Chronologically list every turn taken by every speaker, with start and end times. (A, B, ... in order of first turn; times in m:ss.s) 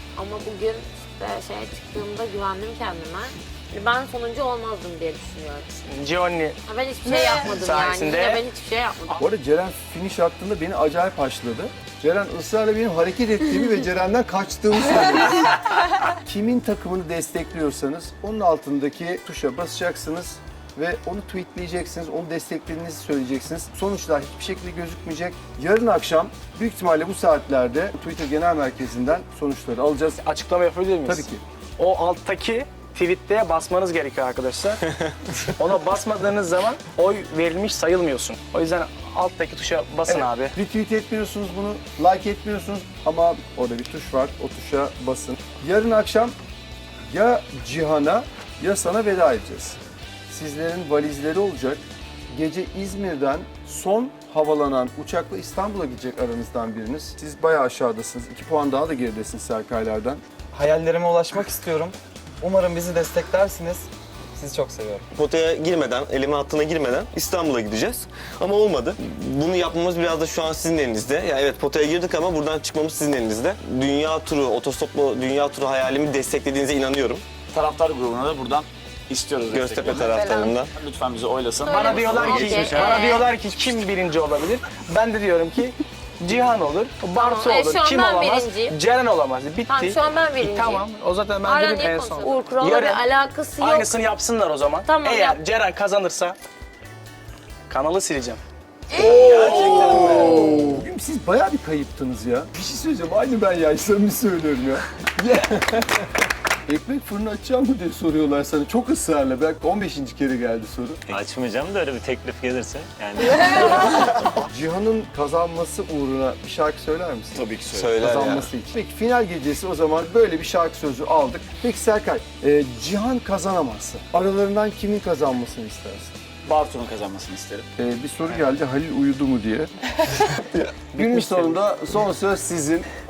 0:00.2-0:05.7 A
0:05.8-0:08.4 B
0:06.7-0:09.2 A
0:09.2-0:30.2 C
0:30.2-0:34.8 B
0:31.1-0:31.4 C
0:35.5-0:40.5 B
0:40.1-0:46.4 C
0:47.1-0:49.8 C
0:50.3-1:00.2 C
1:00.6-1:03.6 D
1:04.4-1:05.1 D
1:05.1-1:17.2 E
1:17.5-1:23.1 F
1:19.5-1:20.7 E
1:21.6-1:23.2 A
1:21.7-1:33.1 B
1:27.1-1:28.8 A
1:29.7-1:30.8 A
1:31.4-1:34.0 A
1:33.6-1:36.4 B
1:34.8-1:35.4 A
1:37.7-1:38.4 B
1:39.0-1:46.1 C
1:39.0-1:40.3 A
1:39.0-1:40.0 F
1:39.9-1:40.4 B
1:46.7-1:51.2 C
1:51.1-1:54.2 G
1:54.4-2:06.1 C
1:57.4-1:58.4 F
1:57.7-1:58.1 E
2:06.5-2:07.7 F
2:07.8-2:09.7 C
2:10.8-2:12.9 C
2:10.9-2:11.6 B